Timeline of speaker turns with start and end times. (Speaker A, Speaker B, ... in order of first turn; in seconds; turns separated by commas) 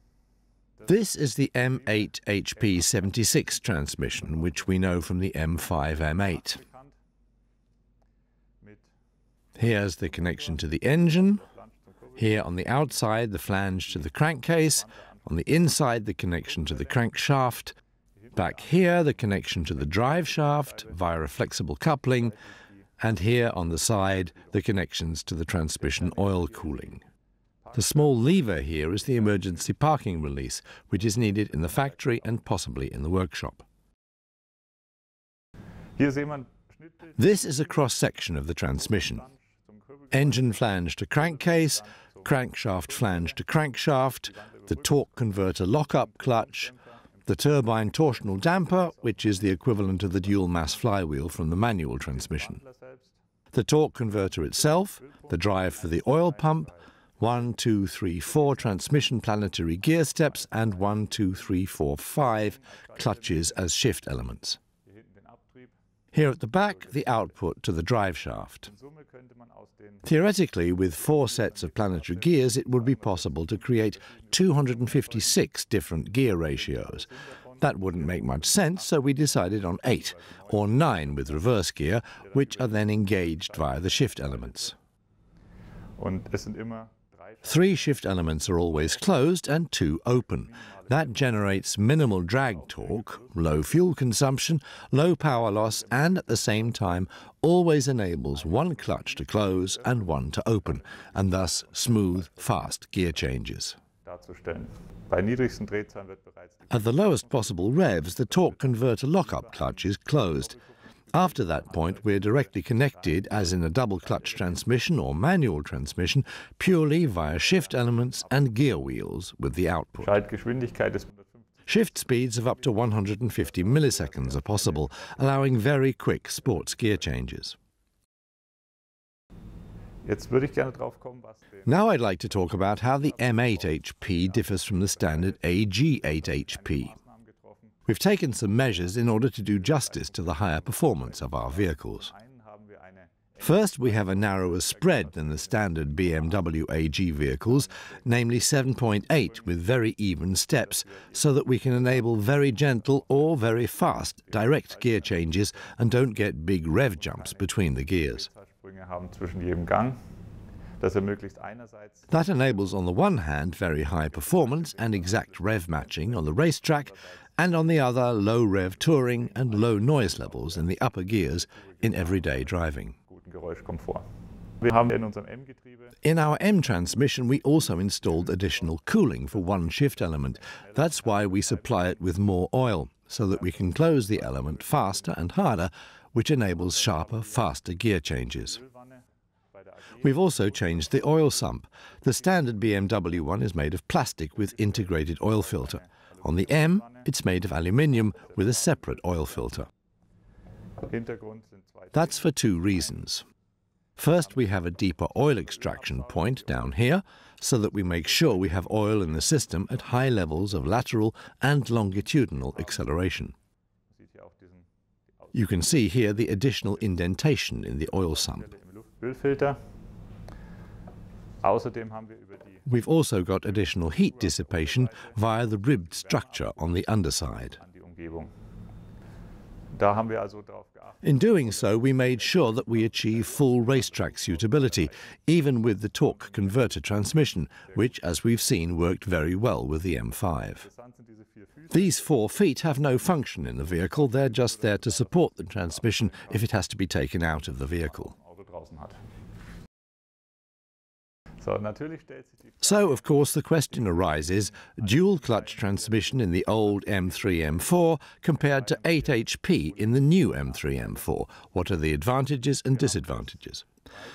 Speaker A: 0.9-6.6, Speaker B: 2.6-4.8, Speaker B: 5.9-6.9, Speaker A: 9.6-11.4, Speaker B: 10.1-12.3, Speaker A: 12.2-17.8, Speaker B: 13.9-15.3, Speaker B: 16.4-17.1, Speaker B: 18.3-21.0, Speaker A: 18.4-22.4, Speaker A: 23.0-27.0, Speaker B: 23.8-24.6, Speaker B: 25.8-26.9, Speaker B: 27.7-29.7, Speaker A: 27.7-33.6, Speaker B: 31.3-32.1, Speaker B: 36.0-37.1, Speaker A: 37.2-39.3, Speaker B: 38.9-43.4, Speaker A: 40.1-46.7, Speaker B: 44.3-46.9, Speaker A: 47.3-52.6, Speaker B: 47.9-51.0, Speaker B: 52.0-53.1, Speaker A: 53.5-64.6, Speaker B: 54.5-56.8, Speaker B: 58.4-58.9, Speaker B: 60.0-61.6, Speaker B: 62.2-63.6, Speaker B: 64.8-65.7, Speaker A: 66.1-68.7, Speaker B: 66.6-67.3, Speaker B: 68.7-70.1, Speaker A: 70.0-77.1, Speaker B: 70.9-75.4, Speaker B: 76.5-81.5, Speaker A: 77.6-84.7, Speaker B: 82.2-84.7, Speaker B: 86.0-88.0, Speaker A: 87.5-103.8, Speaker B: 88.8-89.1, Speaker B: 90.3-91.6, Speaker B: 92.5-93.7, Speaker B: 95.4-96.9, Speaker B: 98.3-102.6, Speaker B: 104.0-110.6, Speaker A: 106.7-110.5, Speaker B: 111.1-114.6, Speaker A: 111.1-120.2, Speaker B: 117.1-118.5, Speaker B: 120.0-121.4, Speaker A: 121.7-127.6, Speaker B: 122.8-125.6, Speaker B: 126.5-127.0, Speaker B: 130.1-131.7, Speaker A: 131.7-136.9, Speaker B: 132.7-137.8, Speaker A: 137.9-142.1, Speaker B: 138.7-146.5, Speaker A: 143.4-158.3, Speaker B: 147.5-149.6, Speaker B: 150.6-153.4, Speaker B: 154.2-155.8, Speaker B: 156.9-160.0, Speaker B: 160.8-162.1, Speaker A: 162.1-172.9, Speaker B: 164.1-167.1, Speaker B: 168.8-174.1, Speaker B: 174.6-176.0, Speaker A: 176.0-188.6, Speaker B: 177.5-182.2, Speaker B: 183.3-185.3, Speaker B: 186.6-187.5, Speaker B: 188.4-189.0, Speaker B: 189.6-191.5, Speaker A: 190.0-199.7, Speaker B: 192.2-193.2, Speaker B: 194.4-197.1, Speaker B: 198.1-199.6, Speaker B: 200.9-203.0, Speaker A: 201.9-203.2, Speaker A: 204.0-213.3, Speaker B: 204.2-206.8, Speaker B: 207.8-209.7, Speaker B: 212.5-212.9, Speaker B: 213.9-214.7, Speaker B: 215.3-216.9, Speaker A: 215.3-218.5, Speaker B: 217.9-219.6, Speaker B: 221.4-222.7, Speaker A: 222.7-227.6, Speaker B: 223.5-228.3, Speaker B: 229.7-234.9, Speaker A: 231.0-240.7, Speaker B: 235.6-236.8, Speaker B: 240.6-242.1, Speaker A: 241.7-248.1, Speaker B: 243.7-246.5, Speaker B: 247.6-249.0, Speaker B: 251.4-253.1, Speaker A: 252.6-263.6, Speaker B: 253.7-257.8, Speaker B: 258.4-261.1, Speaker B: 262.7-263.3